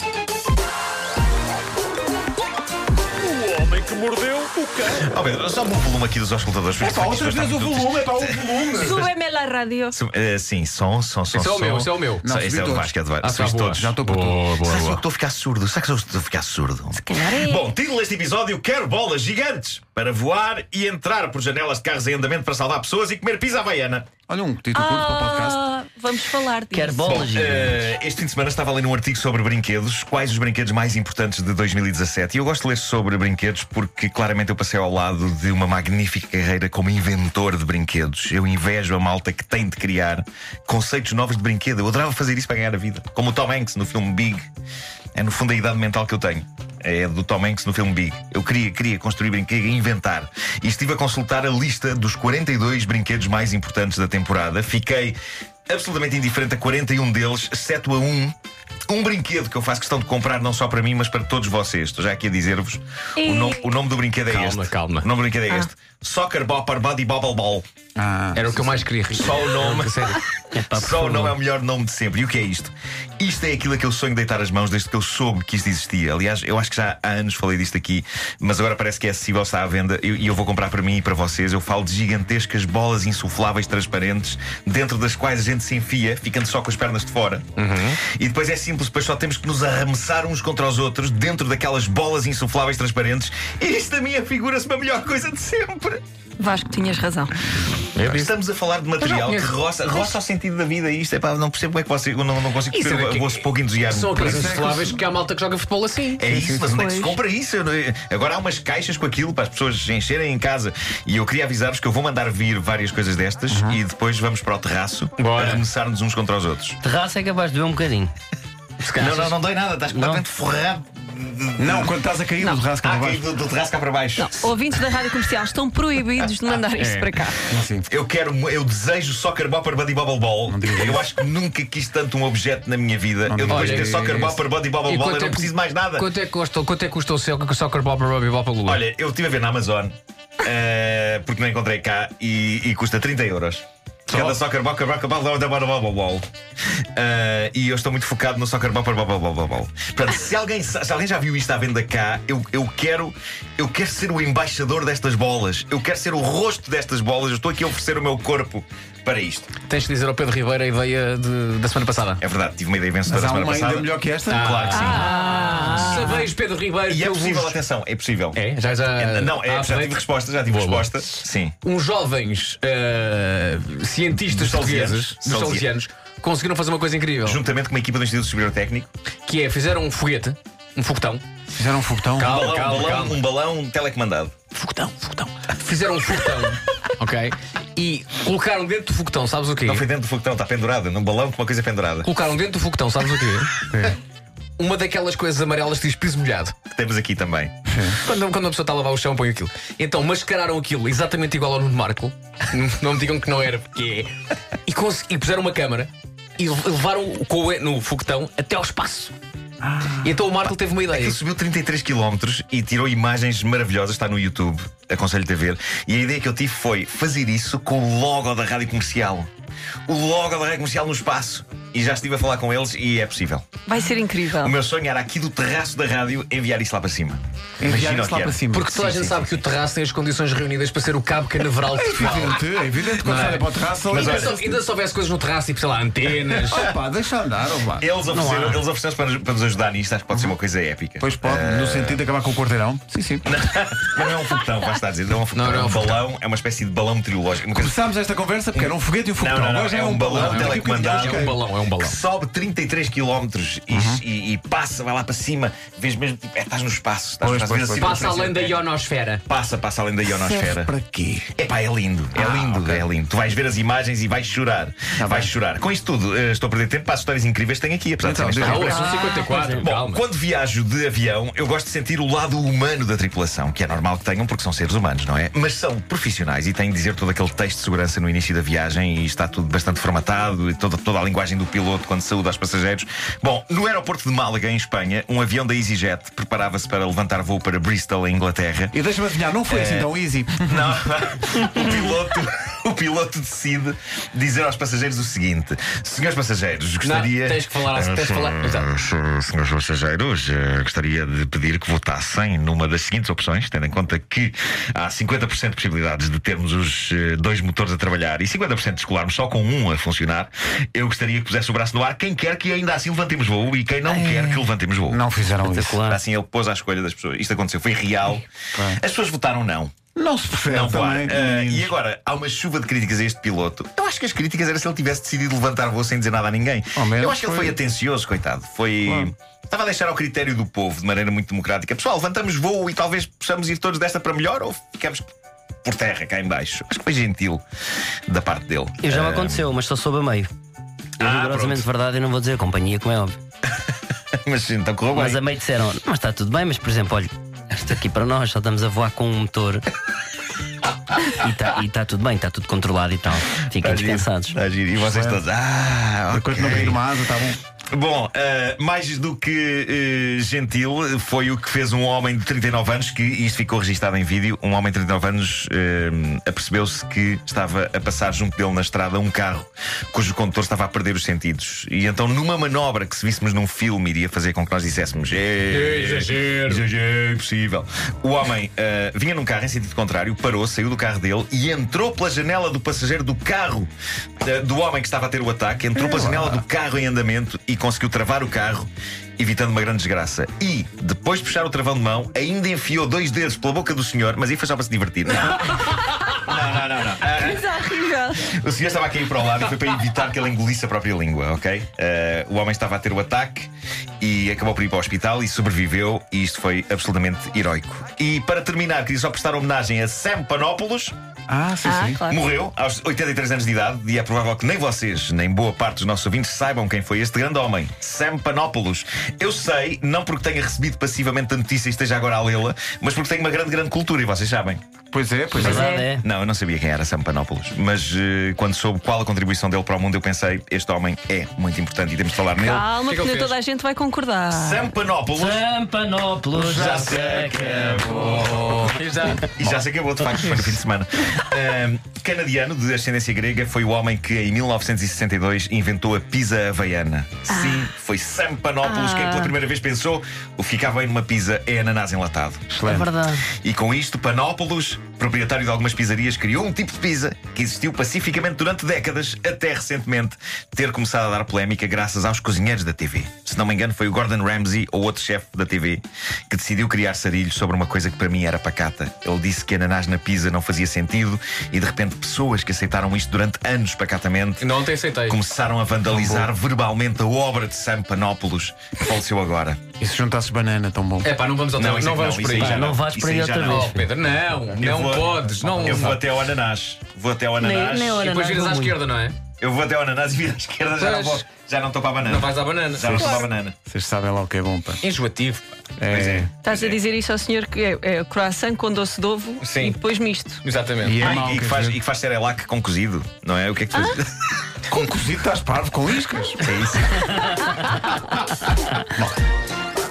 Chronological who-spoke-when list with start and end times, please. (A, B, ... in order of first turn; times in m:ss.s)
0:04.8-0:08.4 A
0:06.8-0:09.1 B
0:08.8-0:09.9 C
0:09.9-0:13.9 A
0:11.3-0:12.2 D
0:12.2-0:12.9 B
0:13.2-0:15.0 D
0:13.7-0:14.9 B
0:14.6-0:24.1 A
0:17.0-0:17.7 C
0:24.3-0:25.6 B
0:24.7-0:27.2 C
0:26.7-0:27.9 E
0:27.0-0:44.5 A
0:45.1-0:55.2 A
0:55.7-0:58.4 A
0:58.9-1:07.6 A
1:03.2-1:03.7 C
1:04.3-1:05.0 D
1:08.0-1:08.5 B
1:08.3-1:10.2 D
1:09.1-1:36.0 A
1:10.5-1:11.3 E
1:27.6-1:28.0 D
1:36.4-1:37.3 C
1:37.9-1:44.7 A
1:38.0-1:38.3 B
1:39.0-1:39.5 D
1:42.7-1:46.3 D
1:44.2-1:45.0 B
1:46.2-1:56.8 A
1:46.2-1:46.8 B
1:46.7-1:47.2 C
1:53.5-1:53.8 B
1:55.2-1:55.6 D
1:56.8-1:58.1 E
1:58.8-1:59.4 D
1:59.0-2:02.0 A
1:59.9-2:00.2 E
2:01.6-2:03.3 B
2:02.8-2:04.8 A
2:04.2-2:07.4 C
2:07.4-2:07.9 B
2:07.9-2:16.1 A
2:10.5-2:11.1 B
2:13.2-2:14.2 B
2:13.5-2:18.8 D
2:18.6-2:26.2 A
2:26.9-2:39.5 A
2:39.7-2:42.2 D
2:42.2-2:45.1 A
2:43.0-2:44.6 B
2:44.3-2:47.6 D
2:44.7-2:46.1 C
2:45.7-2:46.2 A
2:46.9-2:48.4 A
2:48.3-2:51.0 D
2:48.9-2:51.6 A
2:51.6-2:57.4 D
2:54.2-2:55.7 A
2:57.2-2:58.9 A
2:59.2-3:01.2 D
3:01.5-3:02.3 B
3:02.2-3:03.2 D
3:02.2-3:04.3 A
3:04.5-3:09.8 D
3:09.6-3:12.1 A
3:12.0-3:13.5 D
3:13.7-3:14.0 B
3:14.6-3:16.5 D
3:16.7-3:17.5 A
3:17.7-3:18.0 B
3:18.0-3:24.1 D
3:24.7-3:29.1 D
3:29.6-3:30.1 B
3:30.0-3:31.2 D
3:30.9-3:39.3 A
3:39.9-3:43.5 A
3:43.6-3:44.5 C
3:44.4-3:49.4 A
3:47.6-3:48.7 B
3:48.5-3:56.6 D
3:51.7-3:54.5 B
3:53.1-3:54.4 A
3:56.4-3:56.7 A
3:56.5-3:57.9 B
3:57.8-4:02.0 A
3:58.1-3:58.6 E
4:00.1-4:00.4 B
4:01.0-4:03.2 B
4:03.2-4:07.7 A
4:05.3-4:06.0 D
4:07.5-4:11.4 B
4:08.5-4:18.6 A
4:10.1-4:12.0 D
4:13.7-4:14.0 B
4:17.2-4:18.3 B
4:17.7-4:19.2 D
4:19.2-4:20.7 A
4:20.0-4:21.3 B
4:21.3-4:48.7 A
4:22.1-4:22.8 B
4:25.0-4:25.3 B
4:28.0-4:28.7 B
4:28.4-4:30.0 D
4:28.6-4:29.6 E
4:48.7-4:50.8 B
4:49.5-4:49.9 A
4:50.4-5:15.0 A
4:56.8-4:58.7 D
5:13.8-5:15.8 B
5:15.4-5:16.0 E
5:15.8-5:19.7 A
5:18.5-5:18.8 B
5:20.0-5:21.7 B
5:20.5-5:35.1 A
5:26.8-5:27.6 B
5:28.8-5:29.1 B
5:35.6-5:37.4 A
5:38.1-5:39.5 A
5:38.8-5:40.3 E
5:41.0-5:43.2 E
5:41.0-5:41.7 A
5:44.2-5:45.2 A
5:44.9-5:49.6 E
5:51.1-5:54.4 E
5:53.5-5:56.8 A
5:54.8-5:55.2 B
5:56.1-5:57.4 B
5:57.7-6:23.7 A
6:15.5-6:16.6 D
6:24.2-6:28.7 A
6:25.7-6:26.4 B
6:29.2-6:37.6 A
6:37.1-6:38.3 C
6:38.2-6:43.5 A
6:44.0-6:50.9 A
6:51.3-6:52.0 B
6:51.6-6:52.2 C
6:52.1-7:04.6 A
7:04.9-7:05.6 B
7:05.4-7:06.0 E
7:05.4-7:12.7 A
7:05.5-7:05.9 C
7:12.4-7:14.7 C
7:12.5-7:13.3 D
7:14.3-7:15.4 A
7:15.1-7:18.7 E
7:16.3-7:32.4 A
7:18.7-7:19.3 D
7:27.3-7:27.7 C
7:28.6-7:29.2 C
7:32.5-7:32.9 B
7:32.6-7:33.2 E
7:33.4-7:54.5 A
7:54.4-7:55.2 D
7:55.1-7:59.6 A
7:55.8-7:56.3 B
7:59.8-8:01.1 B
8:01.0-8:02.7 D
8:01.5-8:03.8 A
8:02.4-8:03.8 E
8:03.4-8:06.0 D
8:04.5-8:08.1 A
8:05.2-8:06.0 B
8:07.4-8:08.8 E
8:07.9-8:09.2 D
8:09.4-8:13.5 A
8:10.8-8:11.2 D
8:12.0-8:13.2 D
8:12.8-8:14.8 B
8:14.8-8:15.5 D
8:15.8-8:16.3 B
8:15.9-8:16.8 A
8:16.4-8:20.4 C
8:19.4-8:19.8 D
8:20.4-8:21.0 D
8:20.8-8:21.8 B
8:21.0-8:24.3 A
8:24.7-8:26.4 B
8:26.4-8:27.4 A
8:28.8-8:29.2 B